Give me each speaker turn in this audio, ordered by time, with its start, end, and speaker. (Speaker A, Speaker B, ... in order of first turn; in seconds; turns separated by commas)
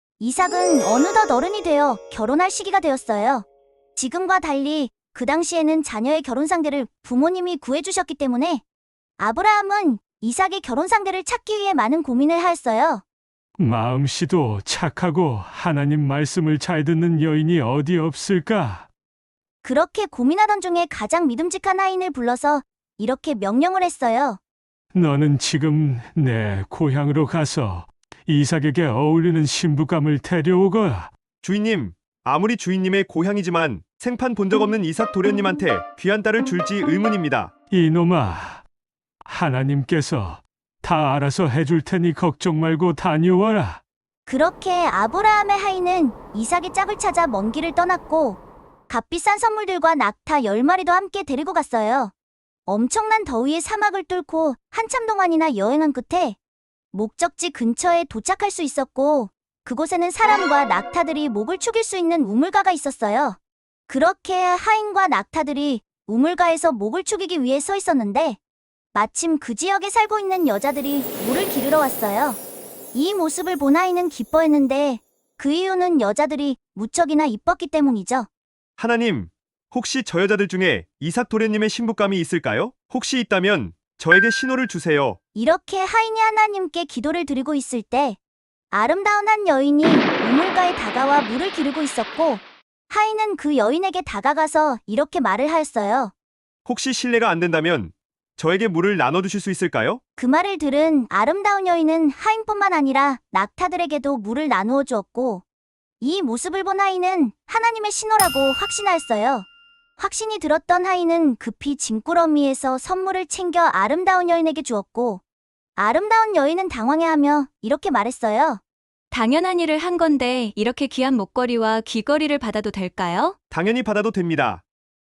Speaker A: 0.2-8.6, Speaker A: 9.2-13.0, Speaker B: 13.6-18.9, Speaker A: 19.6-24.4, Speaker B: 24.9-31.1, Speaker C: 31.4-37.5, Speaker B: 37.7-38.6, Speaker B: 39.2-43.8, Speaker A: 44.2-52.1, Speaker A: 52.7-56.4, Speaker A: 56.9-63.4, Speaker A: 63.9-68.4, Speaker A: 68.9-72.4, Speaker A: 72.9-78.3, Speaker C: 78.8-85.2, Speaker A: 85.3-88.2, Speaker A: 88.7-96.1, Speaker C: 96.6-100.0, Speaker A: 100.2-105.4, Speaker A: 106.0-109.5, Speaker A: 110.0-115.2, Speaker A: 115.8-118.6, Speaker D: 119.1-123.3, Speaker C: 123.5-124.6